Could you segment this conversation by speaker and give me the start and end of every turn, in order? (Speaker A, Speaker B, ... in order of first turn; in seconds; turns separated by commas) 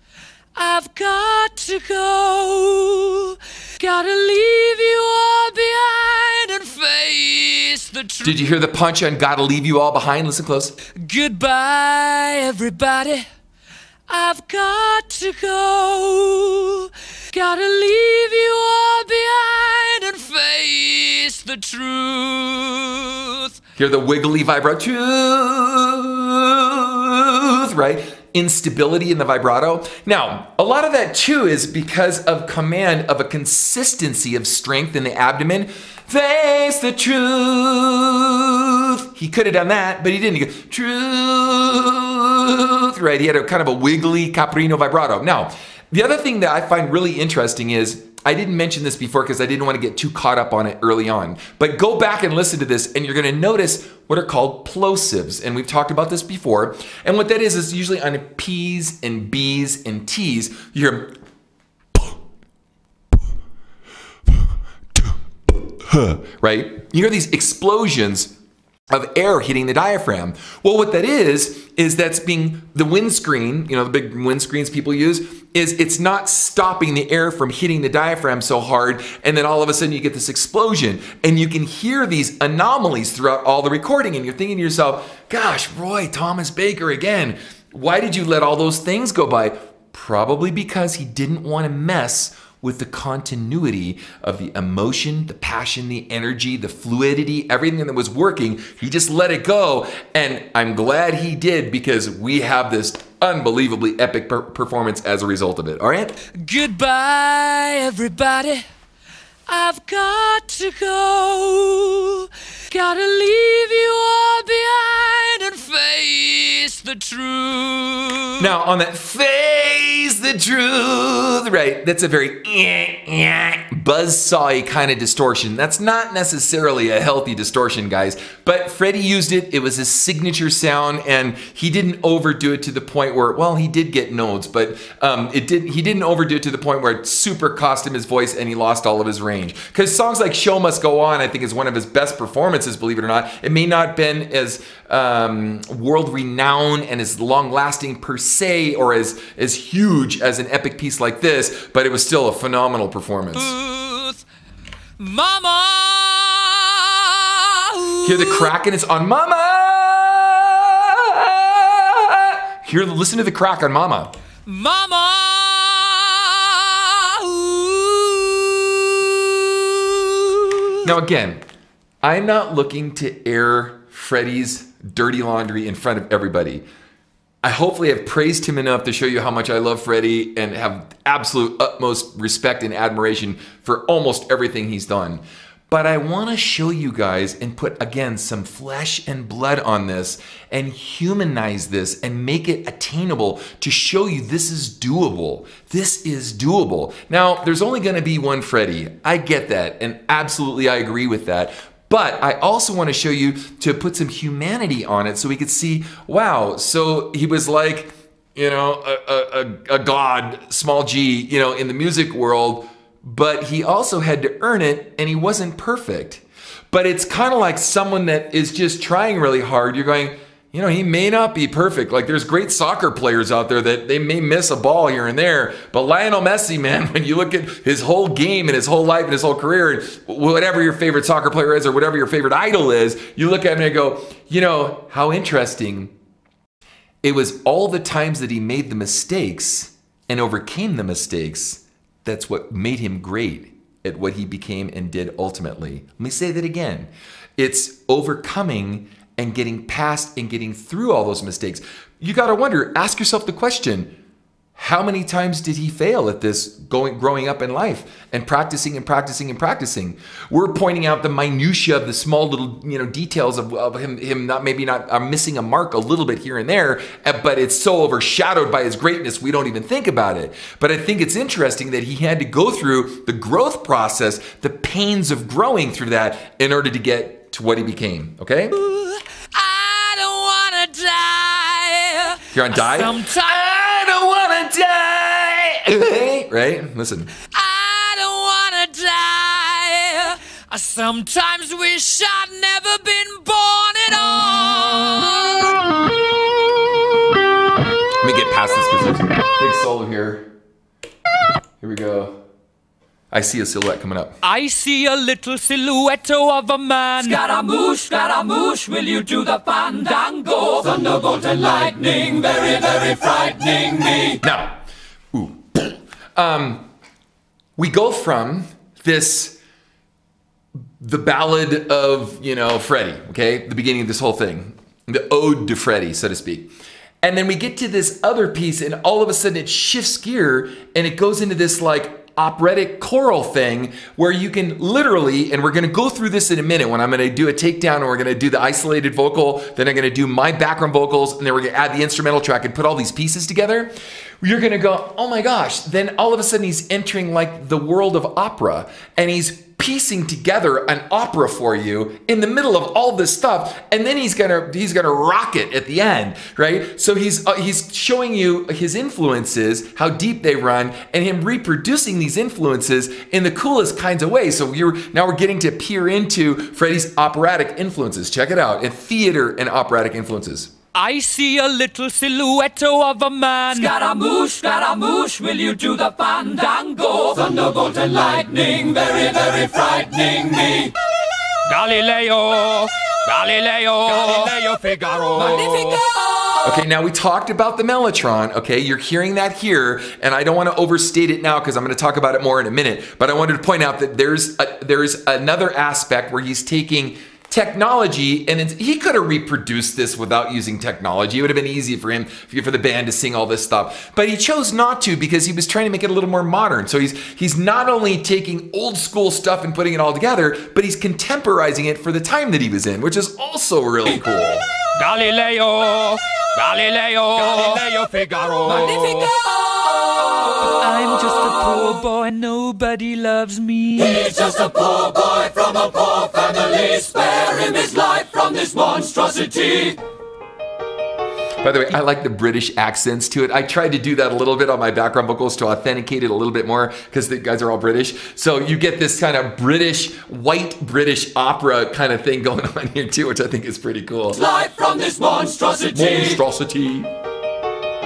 Speaker A: 0.5-8.4, Speaker B: 8.2-10.8, Speaker A: 10.9-13.3, Speaker A: 14.1-23.6, Speaker B: 23.8-61.1, Speaker B: 64.9-68.3, Speaker B: 68.9-106.1, Speaker A: 106.3-108.7, Speaker A: 109.5-118.5, Speaker B: 118.4-153.5, Speaker A: 153.3-154.2, Speaker A: 155.0-158.5, Speaker B: 158.0-164.1, Speaker A: 164.4-170.8, Speaker B: 170.8-171.4, Speaker B: 172.0-176.6, Speaker B: 177.4-235.9, Speaker B: 237.0-253.9, Speaker B: 254.6-278.6, Speaker A: 278.5-283.4, Speaker B: 282.3-287.1, Speaker A: 287.3-295.9, Speaker B: 298.0-300.3, Speaker B: 301.6-302.2, Speaker B: 303.1-304.2, Speaker A: 304.2-307.2, Speaker C: 307.0-314.2, Speaker B: 314.2-314.5, Speaker B: 315.1-316.6, Speaker B: 317.6-319.4, Speaker B: 320.8-326.5, Speaker B: 327.0-370.5, Speaker A: 370.7-373.8, Speaker C: 373.6-380.7, Speaker A: 381.5-385.8, Speaker C: 384.0-385.9, Speaker B: 386.4-414.4, Speaker A: 414.8-419.2, Speaker C: 417.4-419.1, Speaker A: 420.4-424.2, Speaker C: 423.8-429.8, Speaker B: 431.4-444.2, Speaker C: 444.2-446.2, Speaker B: 445.7-446.9